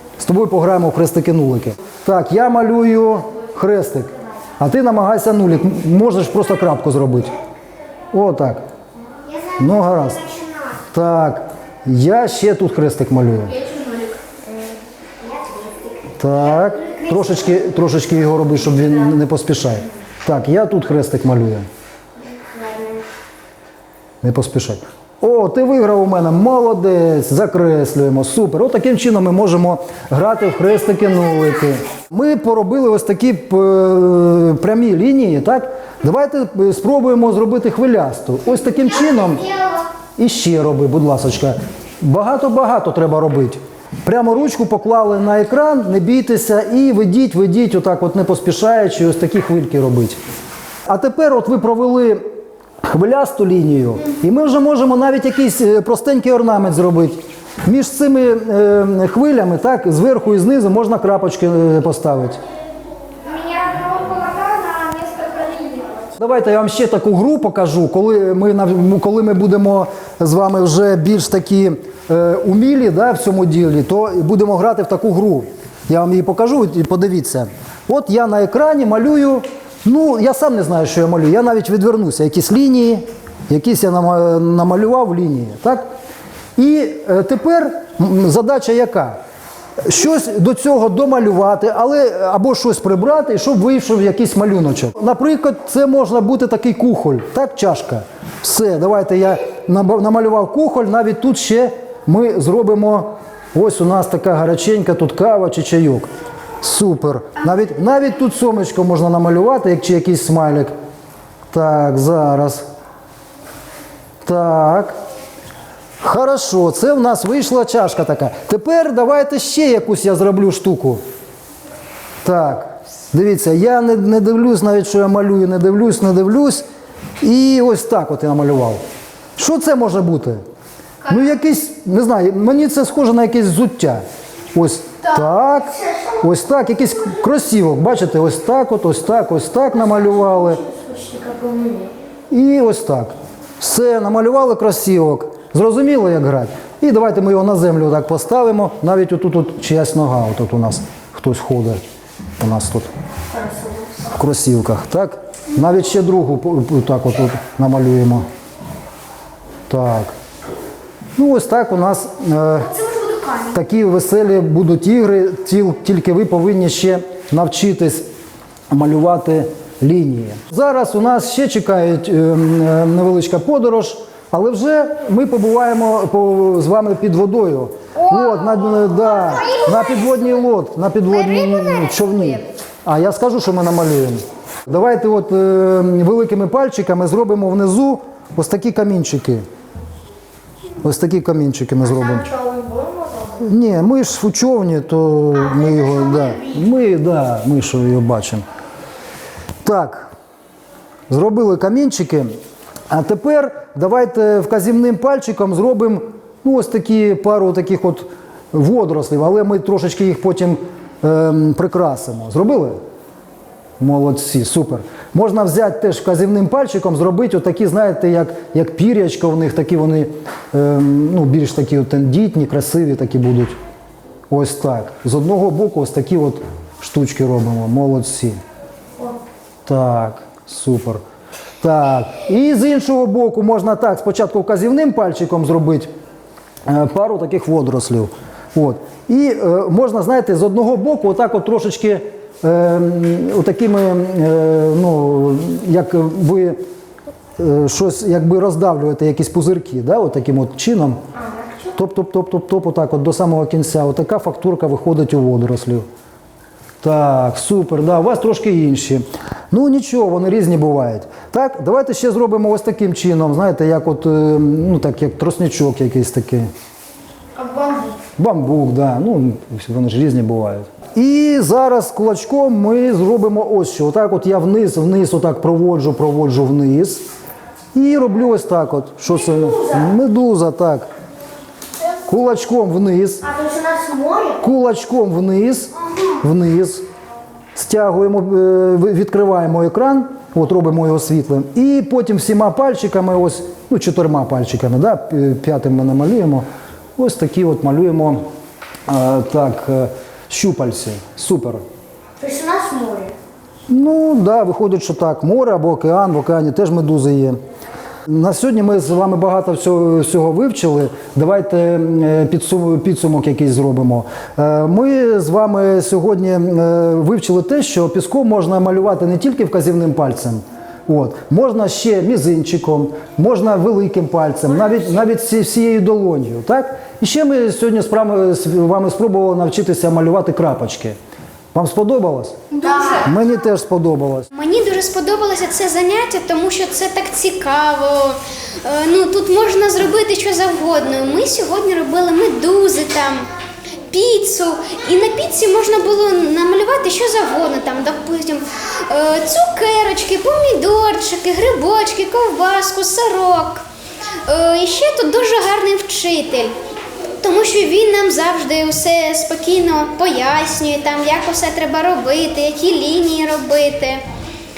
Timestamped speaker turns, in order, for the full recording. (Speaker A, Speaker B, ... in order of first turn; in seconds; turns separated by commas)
Speaker A: 0.2-7.3, Speaker A: 8.1-8.6, Speaker A: 9.5-10.4, Speaker A: 10.9-13.7, Speaker B: 15.3-15.9, Speaker A: 16.2-21.7, Speaker B: 22.5-23.0, Speaker A: 24.2-50.2, Speaker A: 50.9-52.2, Speaker A: 52.8-62.4, Speaker B: 63.3-66.0, Speaker A: 66.2-85.8, Speaker A: 86.6-89.2, Speaker A: 89.8-106.1, Speaker A: 106.6-110.7, Speaker A: 111.5-112.6, Speaker A: 114.2-115.0, Speaker A: 116.0-121.0, Speaker A: 122.2-126.7, Speaker A: 127.2-128.8, Speaker A: 129.4-130.4, Speaker A: 131.0-134.0, Speaker A: 134.5-140.6, Speaker B: 140.7-141.9, Speaker A: 142.3-151.8, Speaker A: 152.4-152.9, Speaker A: 154.0-158.3, Speaker A: 159.7-160.1, Speaker A: 161.2-168.1, Speaker B: 163.0-163.3, Speaker A: 168.7-189.4, Speaker C: 181.5-181.9, Speaker A: 190.8-192.4, Speaker B: 192.3-193.2, Speaker A: 193.3-198.4, Speaker A: 199.6-200.1, Speaker A: 201.1-202.3, Speaker A: 202.9-212.8, Speaker A: 213.8-223.6, Speaker A: 224.3-228.4, Speaker A: 229.7-231.0, Speaker A: 231.6-235.9, Speaker A: 236.7-246.6, Speaker A: 247.4-251.0, Speaker A: 251.7-255.9, Speaker A: 256.8-266.5, Speaker B: 267.4-268.0, Speaker A: 268.2-277.0, Speaker A: 277.8-280.9, Speaker A: 282.1-283.4, Speaker B: 283.3-284.4, Speaker A: 284.4-286.9, Speaker A: 287.6-296.4, Speaker A: 297.0-298.2, Speaker A: 298.9-301.6, Speaker B: 302.2-303.1, Speaker A: 303.7-307.4, Speaker A: 308.1-331.0, Speaker A: 331.5-334.3, Speaker C: 334.3-343.3, Speaker C: 343.9-353.7, Speaker C: 354.2-356.6, Speaker C: 357.2-364.1